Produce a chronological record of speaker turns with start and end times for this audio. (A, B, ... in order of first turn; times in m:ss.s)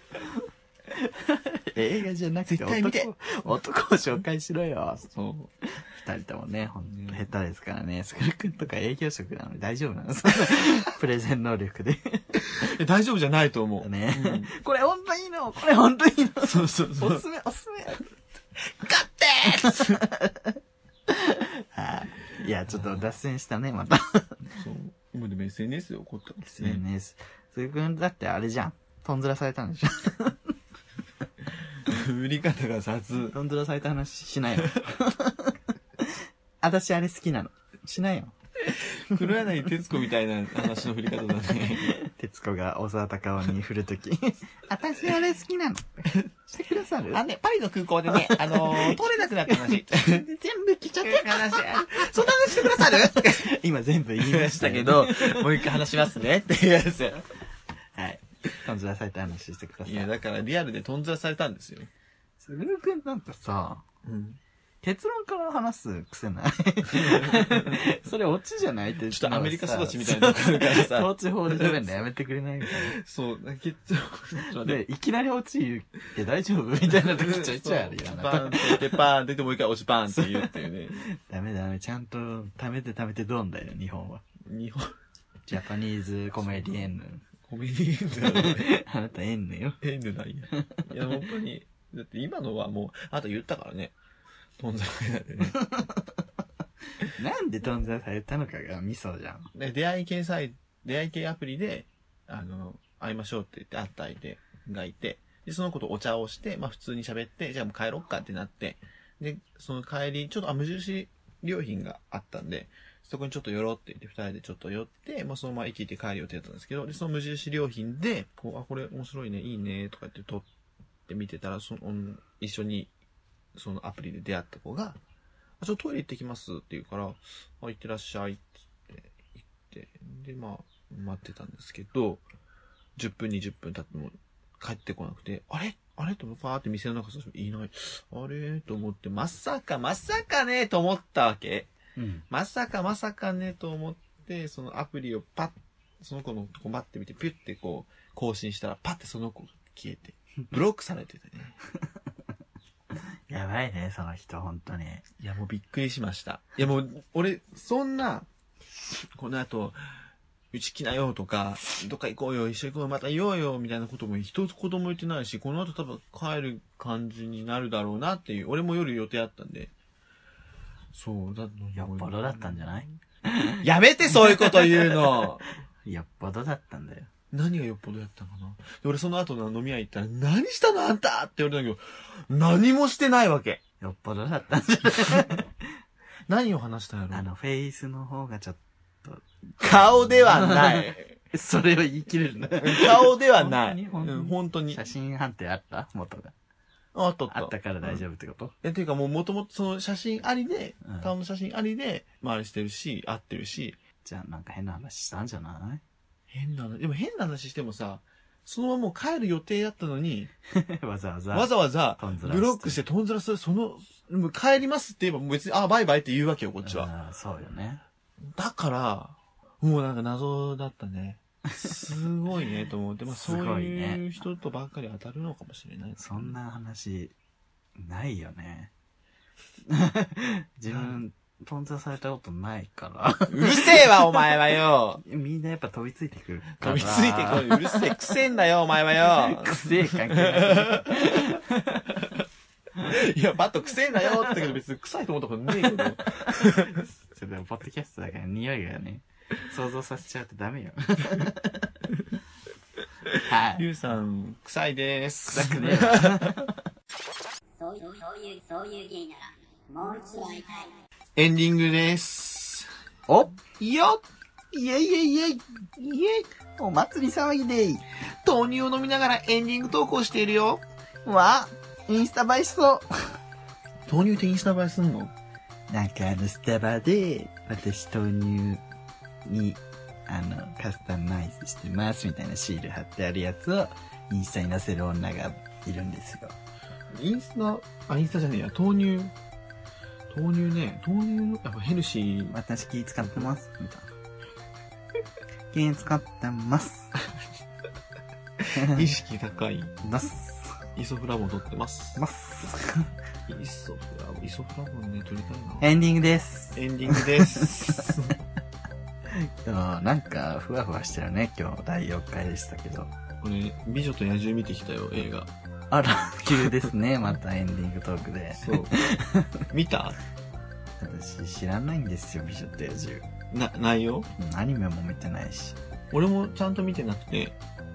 0:00.9-0:05.1 A
0:02.5-0:03.1 B
0:05.1-0:05.5 B
0:05.8-0:12.3 A
0:06.8-0:07.3 B
0:12.4-0:14.5 B
0:13.8-0:18.0 A
0:16.4-0:17.2 B
0:18.9-0:20.6 A
0:19.0-0:20.0 B
0:21.1-0:24.4 A
0:22.7-0:23.0 B
0:24.5-0:26.8 B
0:26.4-0:30.5 A
0:31.8-0:33.4 B
0:33.3-0:38.3 A
0:38.7-0:42.0 B
0:41.9-0:47.2 A
0:47.1-0:50.3 B
0:48.1-0:55.8 A
0:51.0-0:53.5 B
0:54.2-0:57.2 B
0:58.0-1:00.1 A
0:59.8-1:01.9 B
1:02.4-1:03.8 A
1:04.0-1:04.4 B
1:04.8-1:12.9 A
1:06.9-1:07.8 B
1:09.1-1:11.8 B
1:12.9-1:14.8 B
1:14.6-1:19.0 A
1:17.1-1:21.0 B
1:20.2-1:20.5 A
1:21.1-1:24.2 A
1:24.4-1:24.9 B
1:25.5-1:27.2 A
1:27.5-1:28.7 B
1:28.2-1:29.8 A
1:29.8-1:34.0 B
1:30.6-1:30.9 A
1:34.6-1:35.7 B
1:35.7-1:36.0 A
1:37.1-1:39.5 A
1:39.5-2:00.5 B
2:01.1-2:02.9 B
2:03.6-2:05.0 B
2:05.6-2:12.2 B
2:13.0-2:21.7 B
2:22.0-2:22.2 A
2:22.3-2:31.6 B
2:32.9-2:35.1 A
2:35.2-2:38.3 B
2:39.2-2:39.8 B
2:40.5-2:49.7 B
2:50.9-2:52.7 B
2:51.8-2:55.0 A
2:53.6-2:55.6 B
2:55.8-2:57.1 A
2:57.3-3:03.6 B
3:03.8-3:05.5 A
3:06.3-3:07.3 B
3:07.1-3:16.3 A
3:09.6-3:11.2 B
3:12.6-3:14.8 B
3:16.9-3:18.0 B
3:17.3-3:18.6 A
3:18.6-3:23.8 B
3:24.0-3:25.8 A
3:26.3-3:30.3 B
3:30.5-3:32.8 A
3:31.3-3:36.9 B
3:36.6-3:37.8 A
3:38.4-3:46.4 B
3:43.1-3:44.0 A
3:46.0-3:47.1 A
3:47.8-3:48.7 A
3:49.7-3:54.4 A
3:50.7-3:51.0 B
3:53.3-3:55.0 B
3:55.0-3:58.0 A
3:56.6-4:01.4 B
3:59.1-4:01.9 A
4:02.8-4:06.8 B
4:05.7-4:11.8 A
4:13.1-4:16.4 B
4:13.3-4:13.6 A
4:15.3-4:16.5 A
4:17.6-4:20.8 C
4:21.2-4:22.7 B
4:23.6-4:24.0 B
4:24.5-4:27.8 A
4:28.2-4:30.6 B
4:31.0-4:33.2 A
4:33.9-4:35.1 B
4:35.7-4:38.6 A
4:39.3-4:46.4 A
4:46.9-4:49.1 B
4:50.1-4:52.4 B
4:52.3-4:53.9 A
4:55.5-4:56.9 A
4:58.5-4:59.7 B
4:58.5-4:58.9 A
4:59.8-5:00.6 A
5:00.8-5:02.1 B
5:02.0-5:02.9 A
5:03.3-5:05.7 B
5:05.6-5:07.8 A
5:06.5-5:08.1 B
5:09.1-5:12.9 A
5:13.2-5:15.3 B
5:15.7-5:19.4 A
5:18.4-5:18.8 B
5:19.5-5:20.0 B
5:20.8-5:23.0 A
5:23.3-5:24.1 B
5:24.2-5:25.6 A
5:25.9-5:27.4 B